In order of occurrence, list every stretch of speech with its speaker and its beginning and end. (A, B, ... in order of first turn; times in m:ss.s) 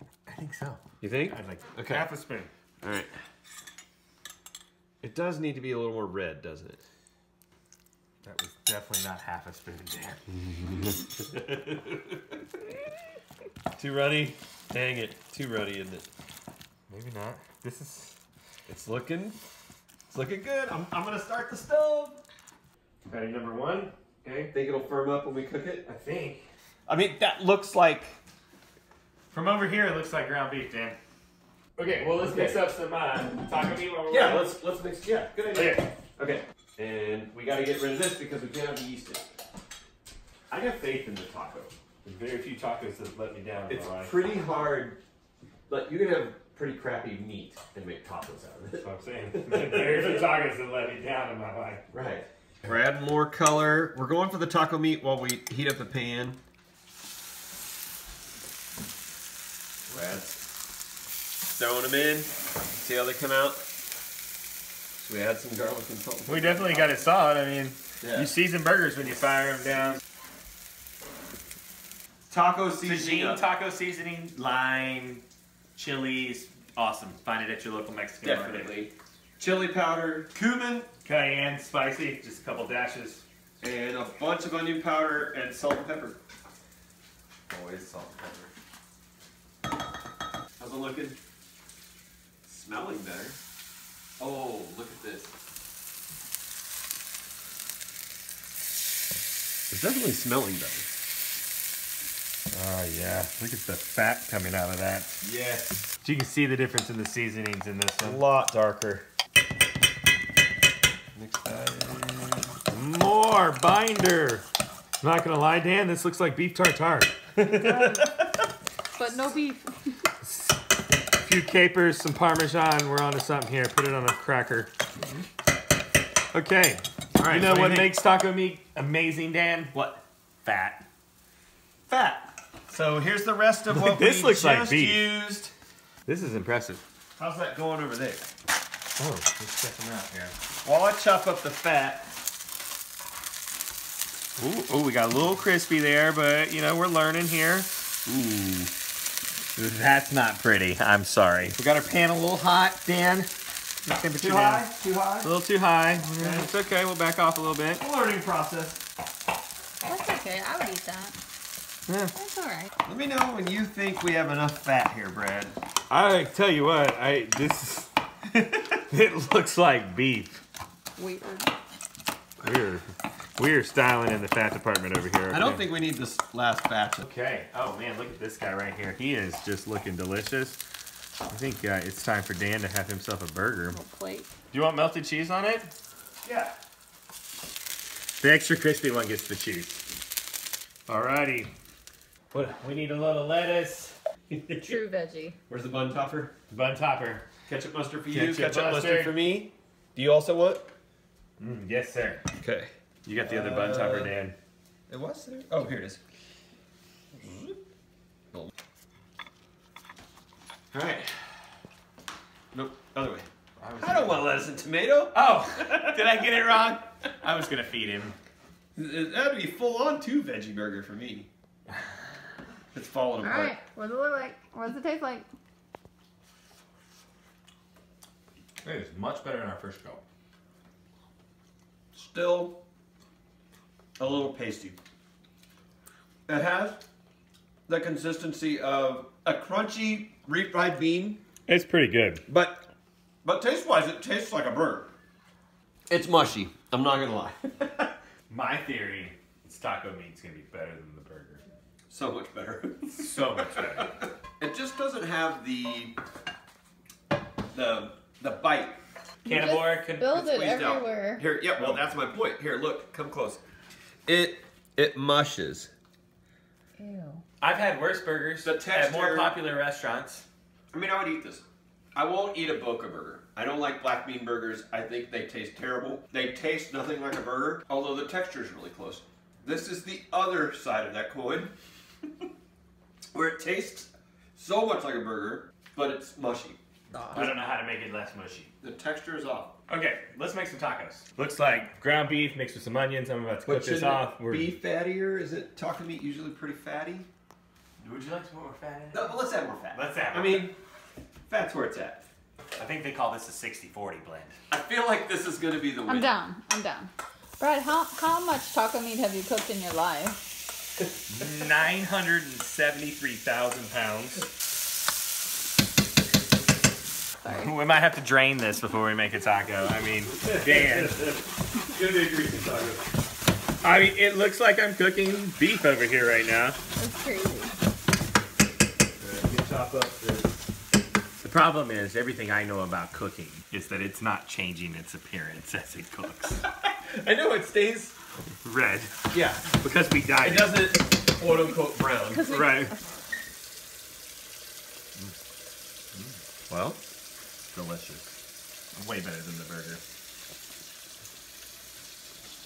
0:00.3-0:02.5 A
0:01.0-0:02.0 B
0:02.8-0:03.1 B
0:05.0-0:06.8 B
0:08.2-0:10.2 A
0:10.3-0:12.3 B
0:13.8-0:16.1 B
0:16.9-0:18.2 A
0:18.7-0:19.4 B
0:20.1-0:22.2 B
0:23.1-0:24.5 A
0:24.5-0:25.8 B
0:25.8-0:26.5 A
0:26.9-0:28.2 B
0:29.3-0:31.0 A
0:31.8-0:34.5 A
0:32.1-0:32.6 B
0:34.1-0:39.3 B
0:35.5-0:35.8 A
0:40.5-0:41.7 B
0:42.0-0:44.1 A
0:43.7-0:45.0 B
0:45.7-0:50.0 B
0:48.8-0:51.8 A
0:51.9-0:56.4 B
0:59.9-1:00.4 B
1:01.5-1:03.6 B
1:05.0-1:07.0 B
1:06.2-1:10.0 A
1:08.0-1:08.3 B
1:12.3-1:13.4 B
1:12.8-1:15.2 A
1:15.8-1:18.7 A
1:18.2-1:20.9 B
1:21.0-1:23.2 A
1:23.6-1:26.2 B
1:27.5-1:28.5 B
1:30.6-1:31.2 B
1:32.4-1:33.4 B
1:34.2-1:35.3 B
1:39.7-1:40.9 B
1:42.5-1:45.2 A
1:45.2-1:45.8 B
1:46.0-1:48.2 A
1:48.0-1:49.0 B
1:51.1-1:52.5 B
1:52.7-1:54.4 A
1:55.0-1:58.1 A
1:57.6-1:58.1 C
1:59.0-1:59.7 C
2:00.2-2:00.5 A
2:01.2-2:04.7 A
2:06.3-2:09.8 A
2:07.1-2:07.9 B
2:09.7-2:10.0 B
2:10.4-2:10.8 A
2:11.9-2:15.5 B
2:13.7-2:15.0 A
2:16.0-2:16.8 A
2:17.2-2:18.3 B
2:19.0-2:20.3 A
2:20.6-2:22.1 B
2:24.4-2:27.7 A
2:28.0-2:28.7 B
2:29.6-2:33.3 A
2:33.8-2:34.7 A
2:34.2-2:35.3 B
2:35.2-2:37.8 A
2:36.2-2:36.5 B
2:37.8-2:38.8 B
2:39.8-2:41.2 C
2:41.9-2:42.1 A
2:42.1-2:42.7 C
2:42.9-2:45.6 B
2:45.9-2:47.9 A
2:48.5-2:50.4 A
2:51.0-2:51.5 C
2:52.4-2:52.8 A
2:53.4-2:55.7 A
2:55.3-2:57.0 B
2:57.0-3:00.6 A
3:01.3-3:03.8 A
3:03.7-3:04.3 C
3:04.5-3:05.7 A
3:06.2-3:06.5 A
3:08.2-3:09.8 A
3:10.9-3:11.5 A
3:12.3-3:14.0 A
3:14.3-3:14.8 B
3:14.6-3:15.4 C
3:15.5-3:16.3 B
3:16.5-3:17.2 A
3:17.5-3:20.7 B
3:18.1-3:19.1 A
3:21.4-3:22.2 A
3:22.4-3:22.7 B
3:23.0-3:24.3 A
3:23.2-3:24.2 B
3:24.9-3:26.0 B
3:27.2-3:27.5 A
3:30.7-3:31.5 B
3:32.5-3:33.3 B
3:33.6-3:34.3 A
3:33.8-3:36.0 B
3:35.1-3:38.2 A
3:38.8-3:41.3 B
3:42.7-3:43.5 B
3:43.2-3:45.3 C
3:48.6-3:50.0 A
3:51.9-3:52.6 B
3:54.0-3:54.8 B
3:56.3-3:56.8 B
3:57.7-4:01.2 B
4:01.5-4:02.2 A
4:02.2-4:02.6 B
4:03.2-4:04.9 B
4:05.9-4:07.9 B
4:08.3-4:11.4 A
4:11.9-4:16.0 B
4:13.0-4:14.0 A
4:17.5-4:18.8 B
4:19.2-4:20.2 A
4:19.2-4:21.2 C
4:20.2-4:23.4 B
4:21.6-4:21.9 A
4:24.1-4:25.7 B
4:26.8-4:27.2 C
4:27.4-4:30.2 A
4:28.4-4:29.4 B
4:30.7-4:41.5 B
4:43.1-4:46.6 B
4:46.9-4:47.3 C
4:47.1-4:48.5 A
4:48.6-4:49.5 B
4:49.7-4:54.5 A
4:53.4-4:57.1 B
4:57.8-4:59.1 A
4:58.9-5:00.6 B
4:59.7-5:00.5 A
5:01.3-5:02.1 B
5:02.6-5:04.4 A
5:04.5-5:06.2 B
5:05.8-5:10.2 C
5:11.1-5:14.2 A
5:17.2-5:17.5 C
5:17.3-5:21.0 A
5:20.2-5:21.2 B
5:21.7-5:22.9 B
5:23.6-5:26.6 A
5:26.8-5:27.5 C
5:29.0-5:30.3 B
5:31.2-5:36.4 A
5:36.5-5:38.0 B
5:38.4-5:40.6 A
5:39.1-5:39.6 B
5:40.2-5:42.2 B
5:42.1-5:42.8 C
5:42.2-5:42.7 A
5:46.5-5:46.8 B
5:47.5-5:48.0 A
5:48.8-5:49.8 A